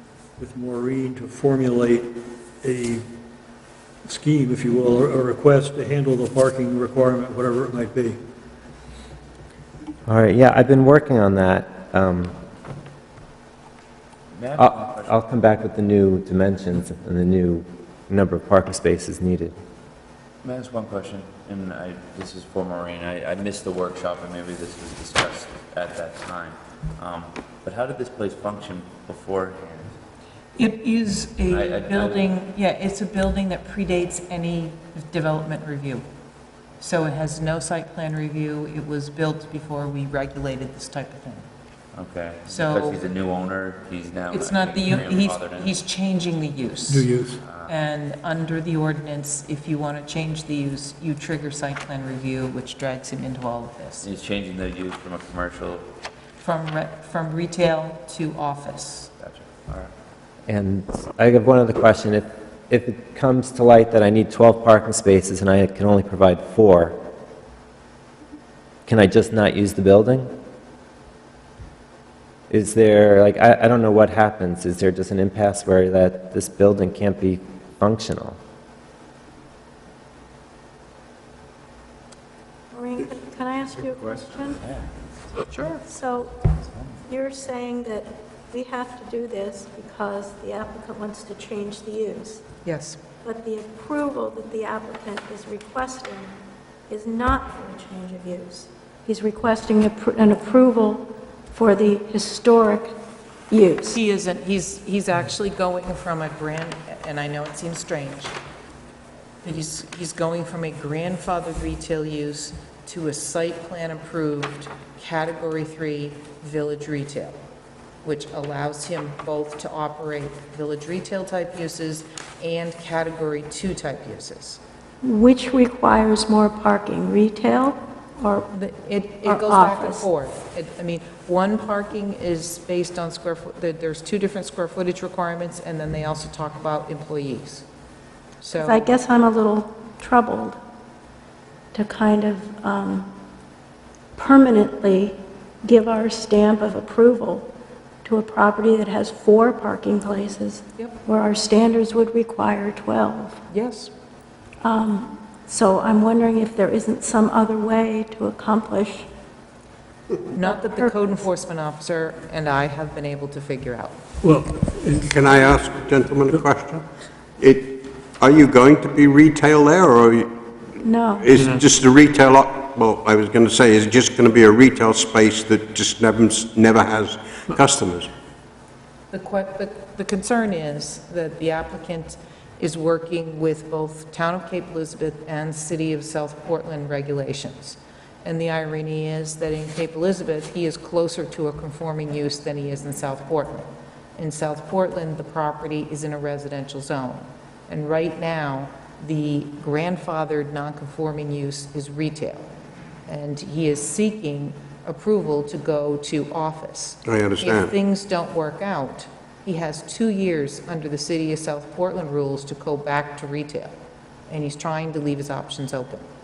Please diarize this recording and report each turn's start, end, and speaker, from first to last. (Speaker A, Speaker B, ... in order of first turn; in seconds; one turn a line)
Speaker A: 0.4-2.1
Speaker A: 2.6-3.0
Speaker A: 4.0-8.2
Speaker B: 10.1-12.3
Speaker C: 14.3-15.2
Speaker B: 14.6-19.5
Speaker C: 20.4-29.9
Speaker D: 30.6-36.0
Speaker C: 31.5-32.3
Speaker D: 36.8-41.5
Speaker C: 41.9-45.8
Speaker D: 42.4-43.1
Speaker D: 44.3-47.1
Speaker A: 46.9-47.4
Speaker C: 47.4-47.8
Speaker D: 47.6-54.1
Speaker C: 54.0-55.9
Speaker D: 56.4-59.1
Speaker C: 59.2-59.9
Speaker B: 60.5-67.0
Speaker B: 68.9-70.3
Speaker B: 72.5-78.4
Speaker E: 82.7-84.6
Speaker C: 84.5-85.1
Speaker D: 85.5-85.8
Speaker E: 85.8-86.3
Speaker C: 86.4-87.0
Speaker E: 87.1-92.4
Speaker D: 92.6-93.0
Speaker E: 93.2-96.3
Speaker E: 96.9-102.9
Speaker E: 103.5-104.0
Speaker D: 103.9-108.4
Speaker D: 109.4-117.4
Speaker D: 118.0-124.6
Speaker E: 125.0-128.5
Speaker D: 128.5-137.6
Speaker E: 129.2-130.1
Speaker D: 138.4-138.9
Speaker E: 138.6-140.6
Speaker E: 141.7-143.1
Speaker E: 144.2-147.5
Speaker E: 148.0-153.4
Speaker D: 153.5-153.9
Speaker E: 154.6-159.1
Speaker D: 160.3-164.0
Speaker E: 160.3-161.2
Speaker A: 164.2-165.4
Speaker F: 165.0-166.8
Speaker F: 167.4-170.3
Speaker E: 170.8-171.3
Speaker F: 171.2-178.1
Speaker A: 171.3-171.7
Speaker D: 179.1-202.5
Speaker D: 203.1-213.7
Speaker F: 207.0-207.7
Speaker D: 214.3-216.0